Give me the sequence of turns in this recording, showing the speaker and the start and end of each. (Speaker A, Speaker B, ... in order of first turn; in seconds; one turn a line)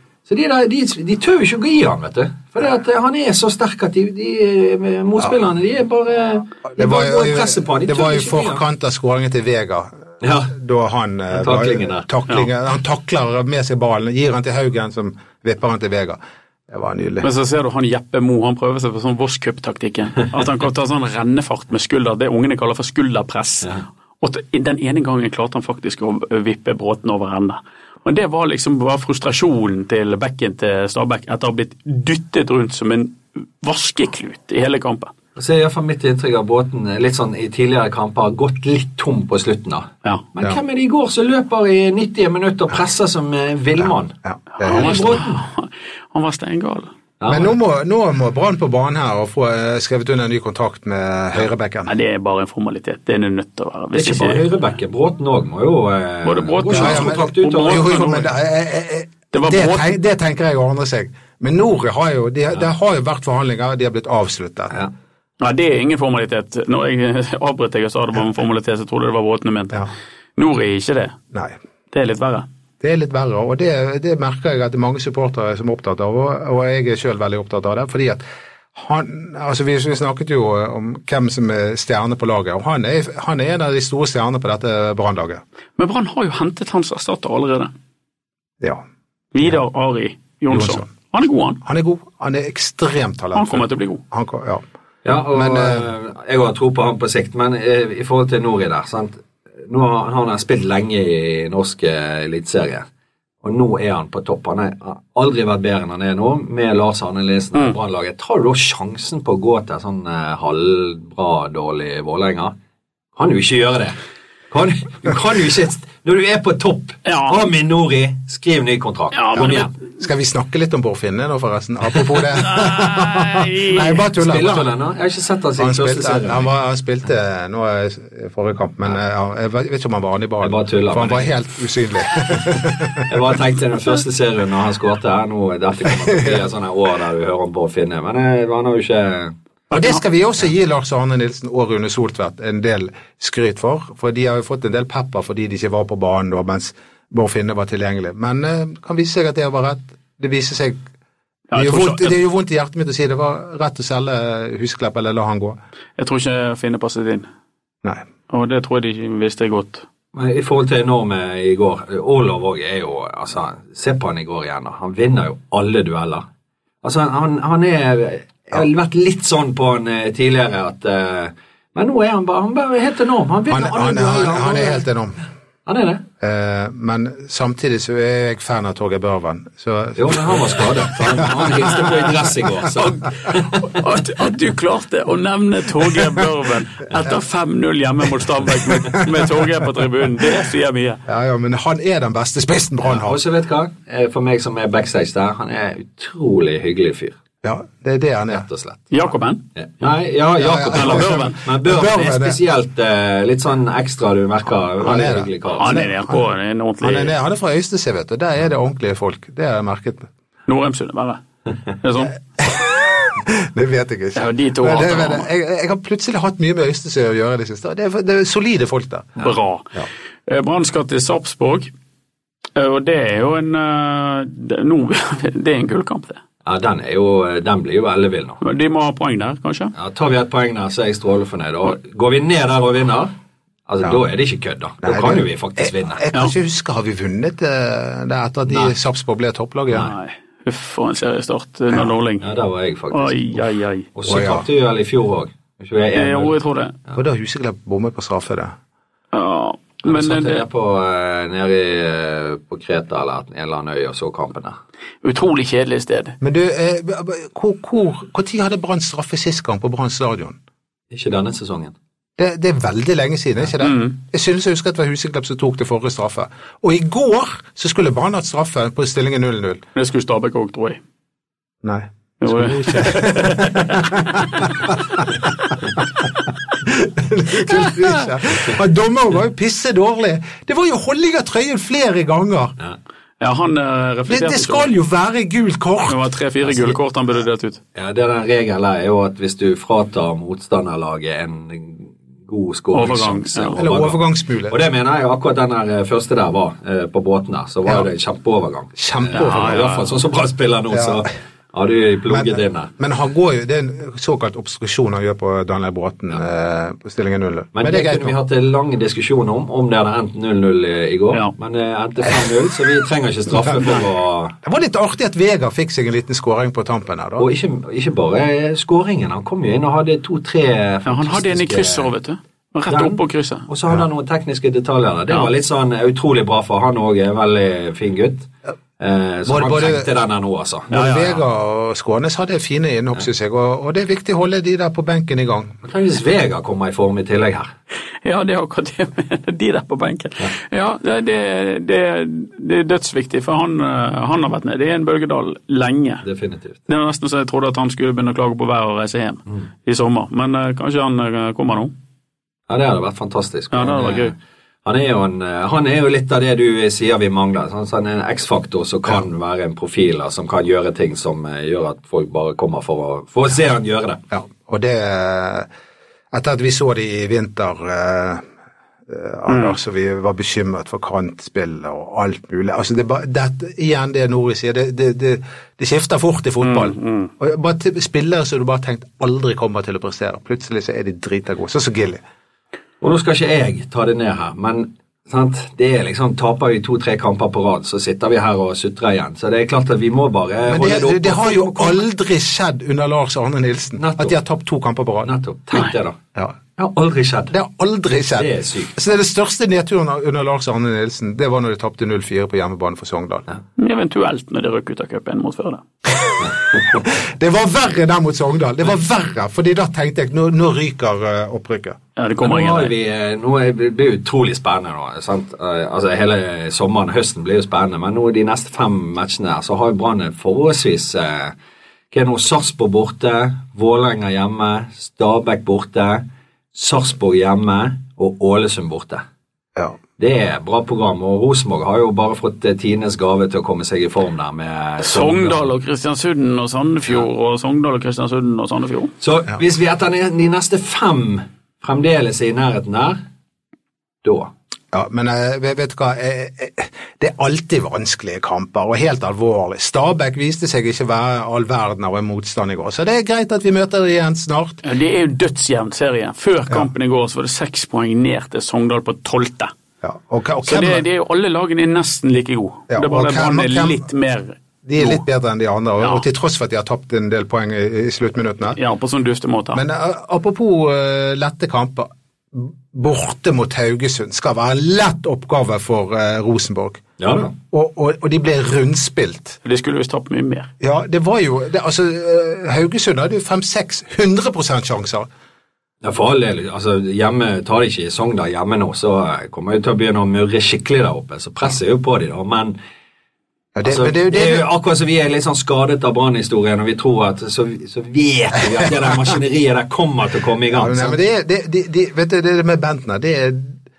Speaker A: 0.3-8.6
Speaker B: 6.7-10.0
Speaker A: 10.2-10.5
Speaker B: 10.5-17.3
Speaker A: 11.3-12.1
Speaker C: 17.2-35.1
Speaker A: 35.4-44.1
Speaker B: 44.2-45.1
Speaker C: 44.6-46.9
Speaker A: 44.7-45.4
Speaker A: 47.2-47.5
Speaker B: 47.3-51.9
Speaker C: 51.9-54.4
Speaker A: 53.9-58.2
Speaker C: 56.2-58.3
Speaker B: 56.7-64.8
Speaker C: 59.3-60.0
Speaker C: 65.4-69.8
Speaker C: 70.4-71.1
Speaker C: 71.9-72.5
Speaker B: 72.8-78.2
Speaker B: 78.8-85.4
Speaker C: 85.8-87.7
Speaker C: 89.3-91.6
Speaker B: 90.5-90.9
Speaker B: 91.6-94.6
Speaker C: 93.3-94.0
Speaker A: 95.0-102.9
Speaker B: 95.3-95.9
Speaker A: 103.4-112.5
Speaker A: 113.2-114.0
Speaker A: 114.5-119.8
Speaker C: 117.0-117.4
Speaker C: 119.1-119.7
Speaker B: 120.0-124.7
Speaker C: 122.3-124.0
Speaker A: 124.1-126.5
Speaker B: 125.6-133.1
Speaker A: 130.4-131.4
Speaker A: 133.1-139.3
Speaker B: 135.9-136.4
Speaker C: 139.7-140.0
Speaker B: 139.7-150.8
Speaker C: 151.5-152.2
Speaker B: 151.6-155.6
Speaker C: 156.0-157.3
Speaker C: 158.3-159.8
Speaker A: 160.1-166.2
Speaker A: 166.8-174.8
Speaker B: 173.5-175.2
Speaker A: 175.7-176.0
Speaker B: 176.2-181.8
Speaker A: 180.0-183.6
Speaker C: 182.8-191.0
Speaker B: 188.8-189.3
Speaker B: 191.1-193.2
Speaker A: 192.8-197.2
Speaker B: 197.4-198.5
Speaker A: 198.3-198.9
Speaker C: 198.9-199.4
Speaker A: 199.6-205.8
Speaker B: 200.4-202.4
Speaker C: 200.7-201.4
Speaker B: 204.8-206.3
Speaker C: 205.6-207.1
Speaker B: 206.8-210.1
Speaker C: 210.5-211.2
Speaker C: 211.8-212.1
Speaker B: 212.4-219.9
Speaker C: 214.1-215.3
Speaker C: 219.2-219.7
Speaker C: 220.3-221.7
Speaker C: 222.6-226.2
Speaker A: 226.4-228.4
Speaker C: 228.4-229.7
Speaker A: 229.8-233.1
Speaker A: 233.7-236.1
Speaker B: 234.8-239.9
Speaker A: 238.5-238.7
Speaker C: 239.8-242.3
Speaker A: 242.2-246.3
Speaker C: 242.9-243.9
Speaker B: 244.1-244.4
Speaker C: 245.9-246.8
Speaker B: 246.9-248.5
Speaker C: 249.1-250.4
Speaker A: 249.9-254.6
Speaker C: 255.0-256.2
Speaker B: 256.2-260.4
Speaker A: 260.9-261.8
Speaker B: 262.2-269.6
Speaker C: 263.6-263.9
Speaker C: 269.8-270.8
Speaker B: 271.6-275.1
Speaker C: 272.2-274.6
Speaker B: 276.6-282.6
Speaker C: 283.2-284.7
Speaker B: 284.1-286.8
Speaker C: 285.9-287.6
Speaker A: 287.8-302.7
Speaker C: 292.7-293.6
Speaker B: 293.6-294.6
Speaker B: 298.8-299.6
Speaker C: 299.1-300.0
Speaker B: 300.7-301.0
Speaker B: 302.1-308.1
Speaker A: 307.6-314.4
Speaker B: 314.4-317.3
Speaker A: 317.2-321.9
Speaker C: 320.9-323.5
Speaker A: 322.7-331.1
Speaker B: 329.3-329.9
Speaker B: 330.7-335.6
Speaker A: 335.6-337.5
Speaker C: 338.0-346.1
Speaker A: 346.1-346.6
Speaker C: 346.7-351.7
Speaker A: 352.5-354.1
Speaker C: 353.5-354.1
Speaker A: 354.6-364.0
Speaker B: 364.1-365.5
Speaker B: 366.1-368.3
Speaker B: 368.9-382.0
Speaker C: 369.3-369.6
Speaker C: 376.4-377.1
Speaker A: 382.8-391.8
Speaker B: 390.5-395.1
Speaker A: 393.8-394.1
Speaker A: 395.1-396.0
Speaker A: 396.6-397.3
Speaker B: 397.3-403.2
Speaker A: 398.1-398.8
Speaker C: 403.6-405.6
Speaker B: 405.9-411.8
Speaker A: 406.2-406.8
Speaker C: 412.0-412.7
Speaker A: 412.2-421.3
Speaker A: 421.9-426.0
Speaker A: 426.5-429.0
Speaker A: 430.0-435.4
Speaker C: 434.8-438.9
Speaker A: 439.0-443.0
Speaker A: 444.0-444.3
Speaker B: 444.7-454.6
Speaker C: 454.6-459.5
Speaker B: 459.8-460.8
Speaker C: 460.4-465.0
Speaker B: 462.7-463.8
Speaker B: 464.6-468.6
Speaker C: 468.6-469.6
Speaker B: 469.5-479.4
Speaker A: 477.0-477.3
Speaker C: 479.4-480.5
Speaker B: 480.6-485.1
Speaker A: 485.8-492.6
Speaker B: 493.6-494.5
Speaker A: 493.6-501.0
Speaker B: 500.5-503.6